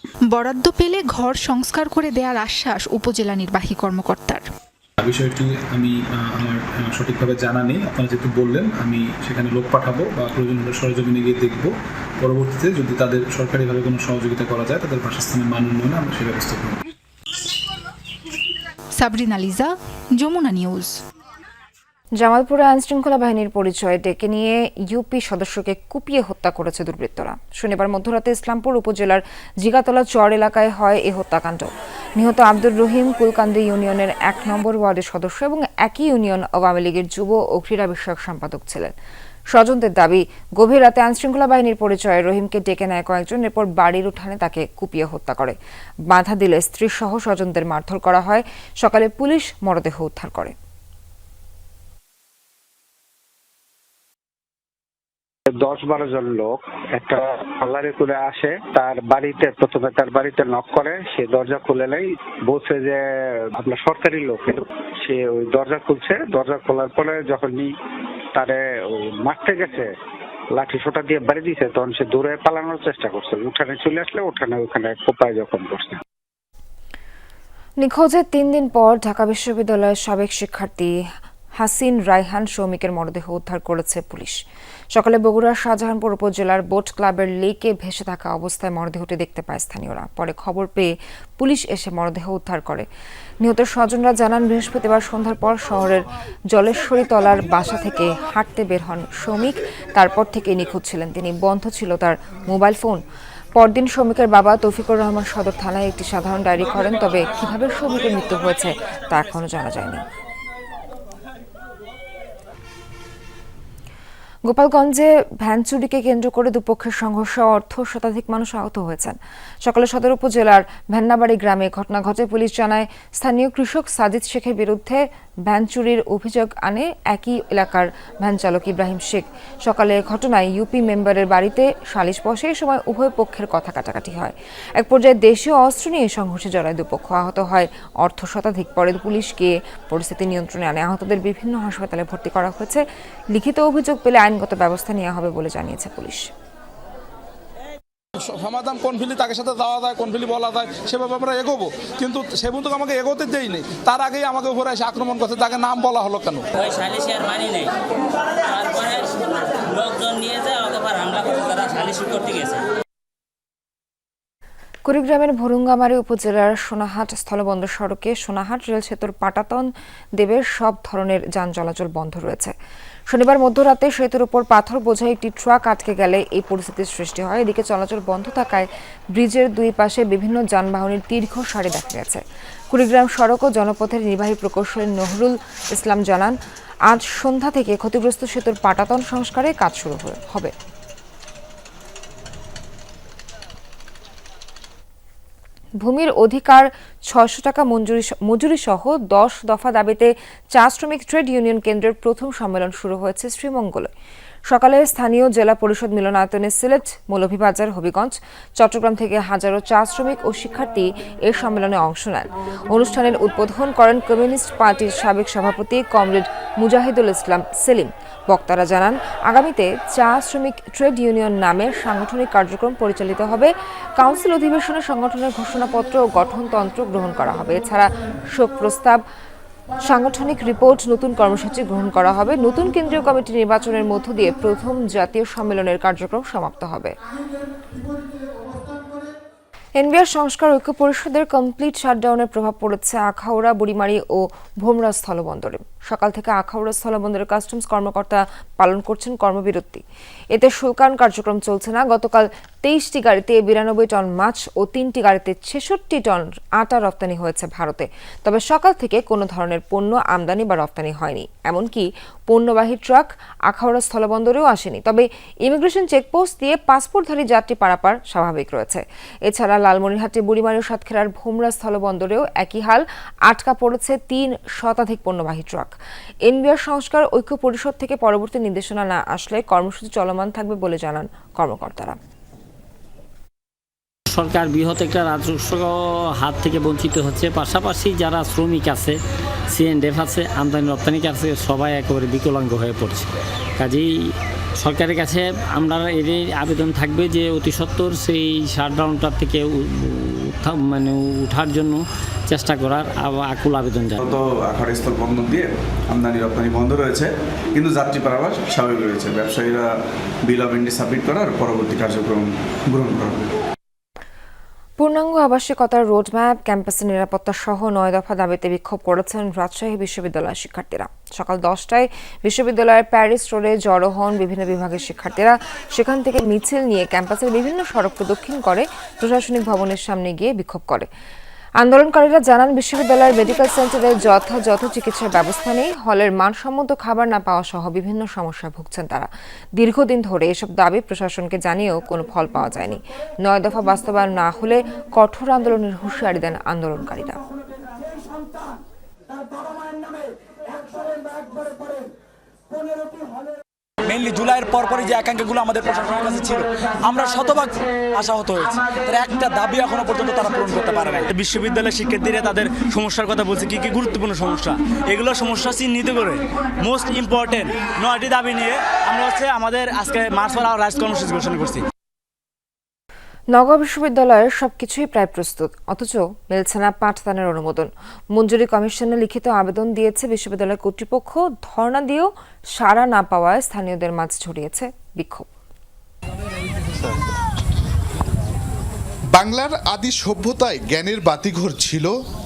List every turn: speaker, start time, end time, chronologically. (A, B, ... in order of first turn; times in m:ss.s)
0:00.3-0:04.4 A
0:05.0-0:16.8 B
0:19.0-0:21.0 A
0:22.2-0:38.9 C
0:39.5-0:45.6 C
0:46.1-0:50.5 C
0:55.6-1:07.7 D
1:08.4-1:09.9 D
1:10.6-1:16.0 D
1:17.8-1:20.9 C
1:21.6-1:24.4 C
1:24.9-1:32.9 C
1:33.4-1:43.0 C
1:43.6-1:50.0 C
1:54.5-2:26.3 C
2:28.2-2:36.5 E
2:36.6-2:37.7 F
2:38.4-2:42.6 F
2:44.9-2:52.6 C
2:53.1-3:06.4 C
3:06.9-3:10.5 C
3:15.8-3:23.9 C
3:24.5-3:49.0 C
3:49.9-3:57.0 C
3:59.8-4:35.8 C
4:36.3-4:42.0 C
4:44.1-4:49.0 G
4:49.5-4:53.9 G
4:54.6-5:04.2 G
5:04.5-5:07.1 H
5:07.6-5:09.6 H
5:10.3-5:12.2 H
5:12.7-5:13.2 H
5:14.8-5:30.9 C
5:31.6-5:47.2 C
5:53.9-6:11.6 I
6:13.3-6:25.3 C
6:29.2-6:31.9 J